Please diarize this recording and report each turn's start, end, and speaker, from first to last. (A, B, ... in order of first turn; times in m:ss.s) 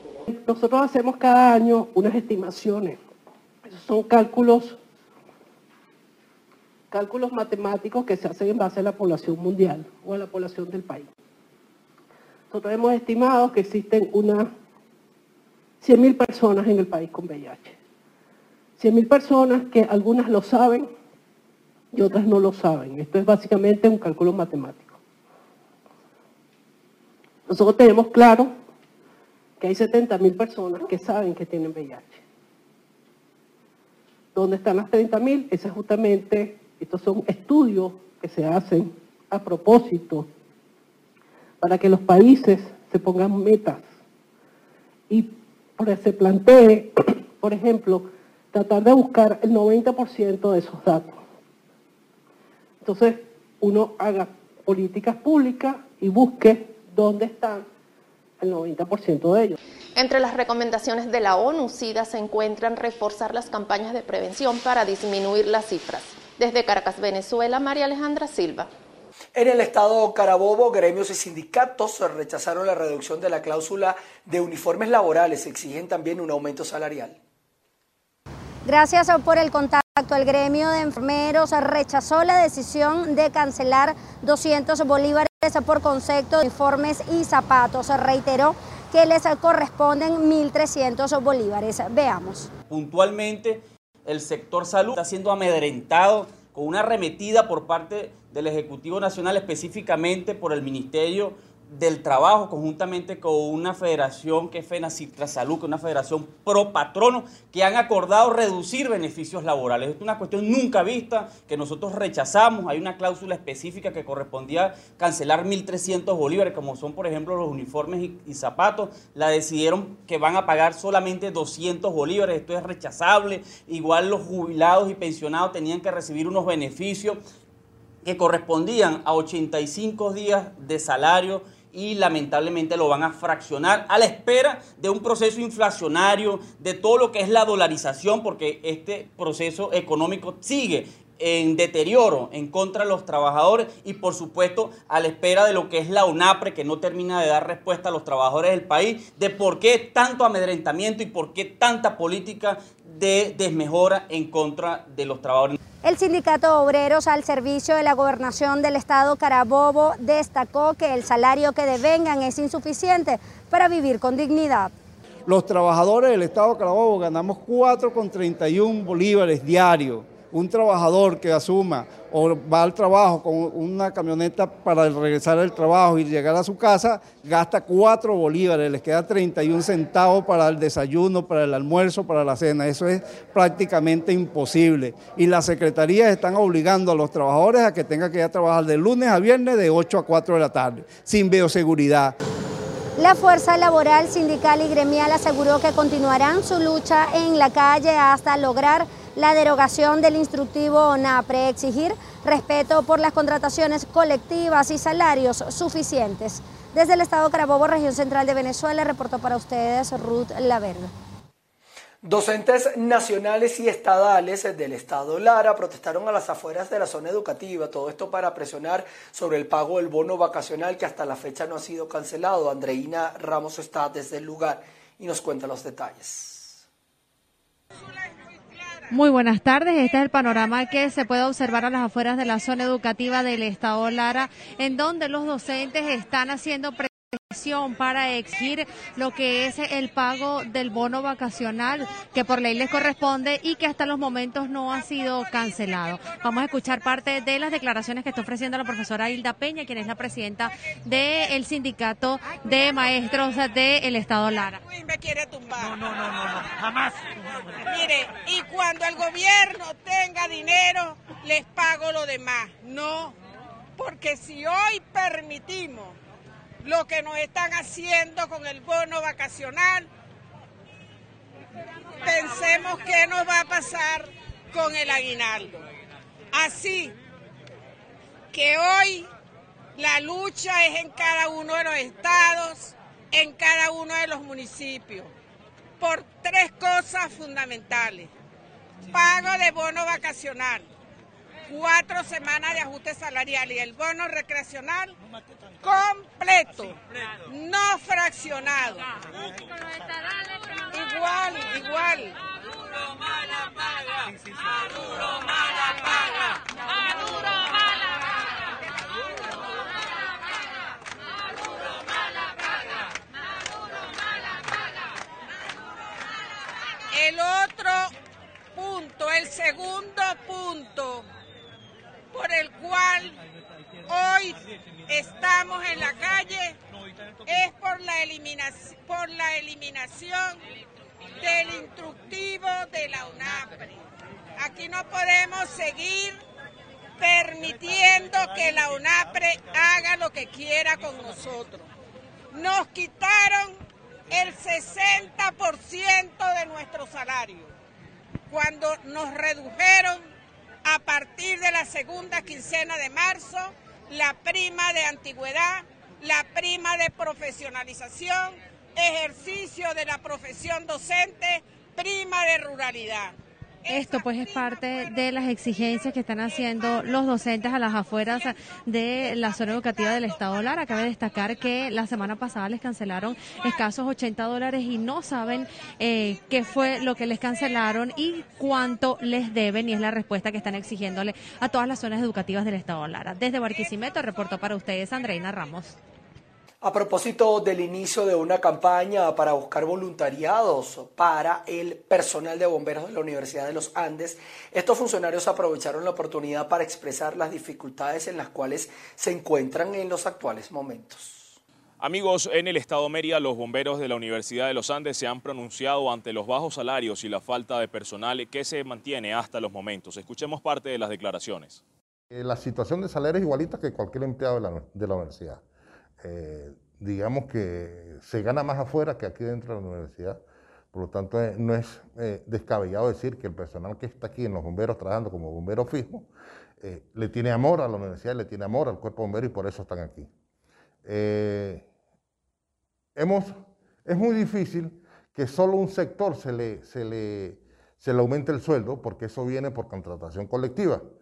0:00.3-0:03.0 A
0:03.6-0:04.8 A
0:06.9-0:11.1 A
0:12.5-0:14.5 A
0:15.8-0:17.7 A
0:18.8-0:20.9 A
0:21.9-0:25.0 A
0:27.5-0:28.5 A
0:29.6-0:32.2 A
0:34.3-0:40.3 A
0:41.6-0:43.8 A
0:45.1-0:51.2 A
0:52.8-0:57.6 A
0:58.4-0:59.6 A
0:59.9-1:08.7 B
1:09.3-1:17.2 C
1:18.6-1:32.5 D
1:32.7-2:07.2 E
2:08.0-2:35.6 E
2:35.8-2:44.7 D
2:45.3-3:12.1 F
3:13.0-3:30.9 D
3:32.0-3:46.6 C
3:47.7-3:49.1 G
3:48.9-4:14.6 H
4:04.7-4:06.6 G
4:11.0-4:11.3 G
4:12.6-4:12.8 G
4:14.3-4:17.0 G
4:17.6-4:23.2 G
4:23.8-4:26.0 G
4:26.6-4:29.9 G
4:32.0-4:35.6 G
4:36.3-4:36.9 G
4:38.3-4:39.1 G
4:39.8-4:45.1 G
4:45.8-4:48.1 G
4:48.9-4:50.7 G
4:51.5-4:54.9 G
4:55.6-4:58.8 G
5:00.7-5:02.2 G
5:04.8-5:06.0 G
5:16.9-5:17.9 G
5:18.5-5:21.1 G
5:22.1-5:23.2 G
5:23.9-5:26.6 G
5:27.3-5:30.4 G
5:31.2-5:33.8 G
5:34.4-5:36.2 G
5:37.0-5:41.7 G
5:42.3-5:47.5 G
5:48.3-5:50.0 G
5:50.6-6:07.4 G
6:03.7-6:25.7 H
6:08.0-6:08.3 G
6:08.9-6:10.8 G
6:26.6-6:41.4 C
6:41.8-6:51.6 I
6:52.1-6:55.4 J
6:56.0-7:00.2 J
7:00.7-7:06.1 J
7:06.6-7:10.1 J
7:10.8-7:11.6 J
7:13.0-7:13.3 J
7:13.8-7:20.8 J